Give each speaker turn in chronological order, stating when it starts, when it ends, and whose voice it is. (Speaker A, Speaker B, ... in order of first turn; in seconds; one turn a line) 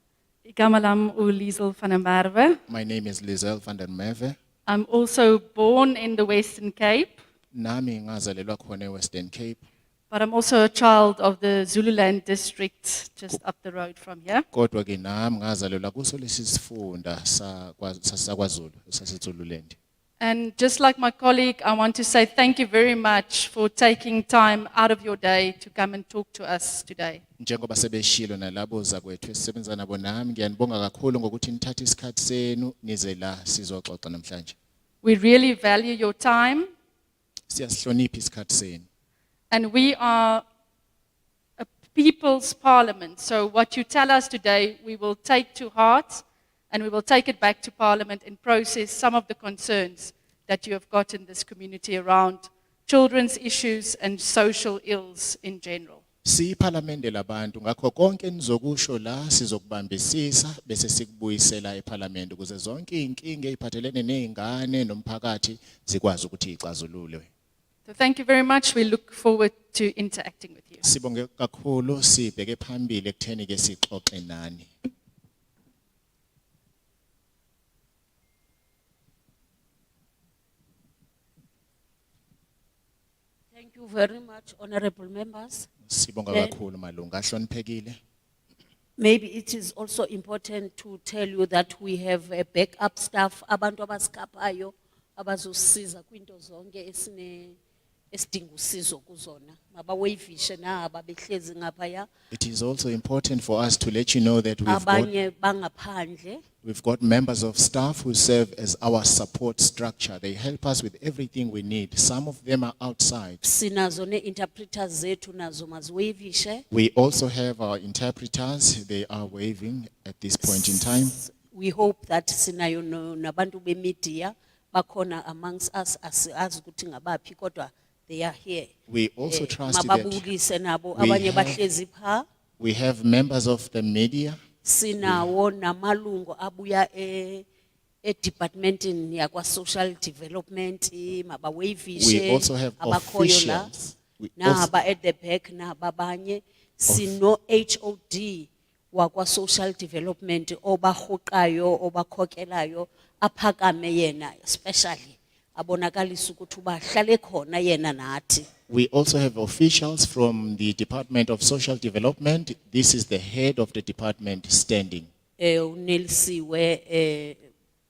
Speaker A: 0.5-2.6
Speaker B: 2.7-4.4
Speaker A: 4.7-7.2
Speaker B: 7.5-9.6
Speaker A: 10.1-14.4
Speaker B: 14.5-19.8
Speaker A: 20.2-27.2
Speaker B: 27.4-34.6
Speaker A: 35.0-36.7
Speaker B: 37.5-38.9
Speaker A: 39.5-40.4
Speaker A: 41.6-56.0
Speaker B: 56.2-67.3
Speaker A: 67.8-70.8
Speaker B: 70.8-74.7
Speaker C: 83.5-85.7
Speaker B: 85.9-88.0
Speaker C: 89.0-97.6
Speaker C: 98.1-102.1
Speaker B: 102.3-105.1
Speaker C: 104.7-106.4
Speaker B: 106.6-113.4
Speaker C: 113.4-116.6
Speaker B: 116.7-121.2
Speaker C: 120.4-128.7
Speaker B: 128.9-130.3
Speaker C: 129.3-132.2
Speaker B: 130.9-131.6
Speaker B: 132.6-134.4
Speaker C: 134.6-137.4
Speaker B: 135.0-135.3
Speaker C: 138.0-143.7
Speaker B: 141.9-144.7
Speaker C: 144.4-158.5
Speaker B: 146.9-147.1
Speaker B: 158.7-165.1
Speaker C: 165.4-167.5